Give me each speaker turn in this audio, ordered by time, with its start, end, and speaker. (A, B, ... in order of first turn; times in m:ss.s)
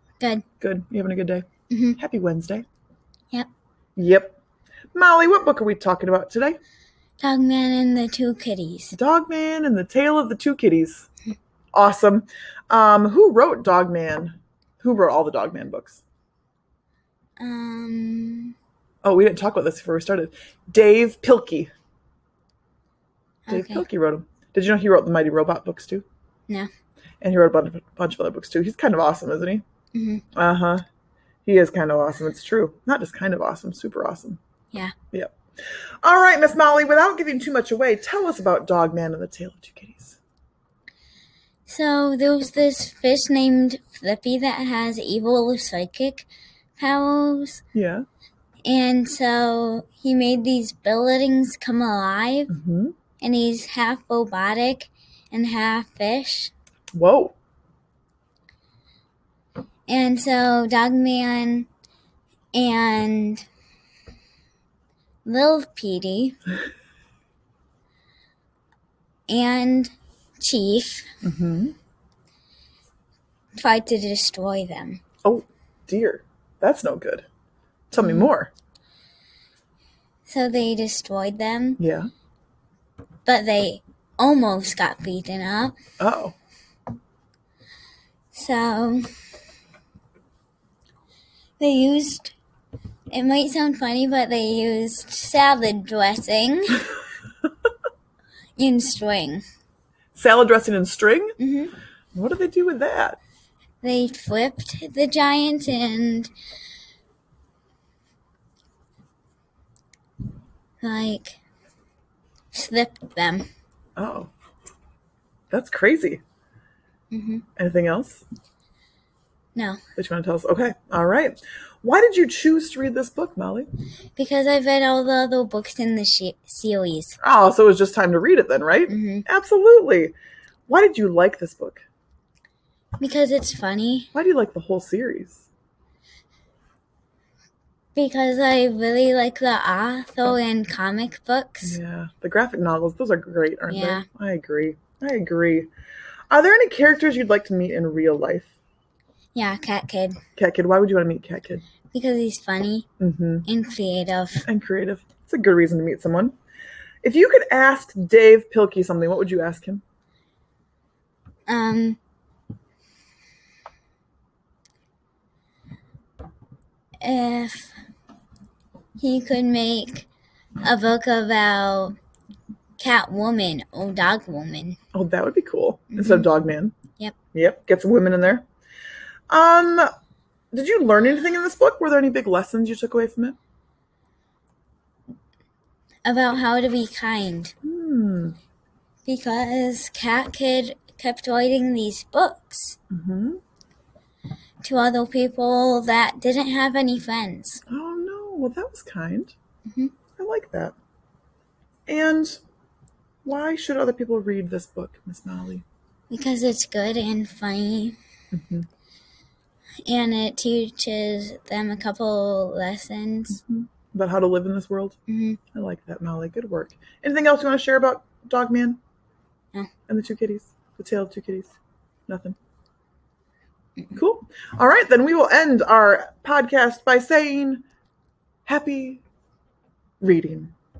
0:00.2-0:00.4 A
0:00.6-0:02.7 B
0:01.7-0:02.0 A
0:04.0-0:04.4 B
0:04.9-0:06.6 B
0:07.2-0:09.0 A
0:08.9-0:11.1 B
0:11.7-0:16.0 B
0:17.4-0:18.6 A
0:19.0-0:21.7 B
0:23.5-0:23.8 A
0:23.5-0:26.0 B
0:27.2-0:29.6 B
0:29.9-0:30.2 A
0:30.3-0:30.8 B
0:31.5-0:34.4 B
0:36.0-0:40.2 B
0:41.7-0:46.3 A
0:46.8-0:47.6 A
0:47.8-0:48.0 B
0:48.6-0:52.5 A
0:52.5-0:52.9 B
0:53.2-0:56.5 A
0:56.9-0:57.4 B
0:59.9-1:01.7 A
1:02.5-1:03.4 A
1:05.2-1:06.4 A
1:09.3-1:11.1 A
1:11.2-1:11.7 B
1:13.6-1:15.0 A
1:15.2-1:17.3 B
1:17.9-1:18.5 B
1:18.0-1:18.3 A
1:20.3-1:21.8 A
1:21.8-1:22.1 B
1:23.3-1:25.8 A
1:26.0-1:26.4 B
1:28.3-1:29.1 A
1:31.6-1:32.3 A
1:33.1-1:36.9 A
1:38.6-1:39.4 A
1:40.1-1:41.4 B
1:41.4-1:41.7 A
1:42.1-1:43.2 B
1:43.8-1:46.3 A
1:50.8-1:51.4 A
1:52.5-1:53.5 A
1:54.0-1:54.3 B
1:55.5-1:56.2 B
1:57.1-1:57.4 A
1:57.6-1:58.2 B
1:59.6-1:59.8 A
2:00.0-2:03.7 B
2:04.2-2:07.2 A
2:07.2-2:10.2 B
2:08.9-2:09.2 A
2:10.7-2:11.8 B
2:13.0-2:14.1 A
2:14.1-2:15.5 B
2:18.0-2:21.8 A
2:21.6-2:25.7 B
2:23.7-2:24.0 A
2:26.3-2:28.5 B
2:29.4-2:30.2 A
2:30.4-2:31.6 B
2:31.9-2:32.9 A
2:33.0-2:33.5 B
2:33.5-2:34.5 A
2:34.4-2:36.3 B
2:37.0-2:39.8 B
2:41.5-2:42.0 A
2:47.0-2:47.8 A
2:49.0-2:50.1 A
2:50.6-2:52.0 A
2:52.8-2:54.8 A
2:54.9-2:56.8 B
2:55.9-2:56.3 A
2:57.3-2:58.4 B
2:59.3-2:59.9 B
3:00.5-3:03.4 B
3:06.0-3:07.5 A
3:07.6-3:08.4 B
3:09.1-3:12.8 A
3:12.9-3:13.4 B
3:14.6-3:17.6 A
3:17.7-3:19.4 B
3:19.7-3:19.9 A
3:20.2-3:20.8 B
3:21.9-3:22.4 B
3:23.2-3:25.6 B
3:26.1-3:28.0 A
3:28.3-3:28.7 B
3:29.9-3:33.4 A
3:33.3-3:35.0 B
3:35.1-3:35.4 A
3:35.5-3:38.8 B
3:39.9-3:41.5 B
3:42.1-3:42.4 B
3:43.9-3:47.6 B
3:48.5-3:49.0 B
3:50.0-3:50.5 B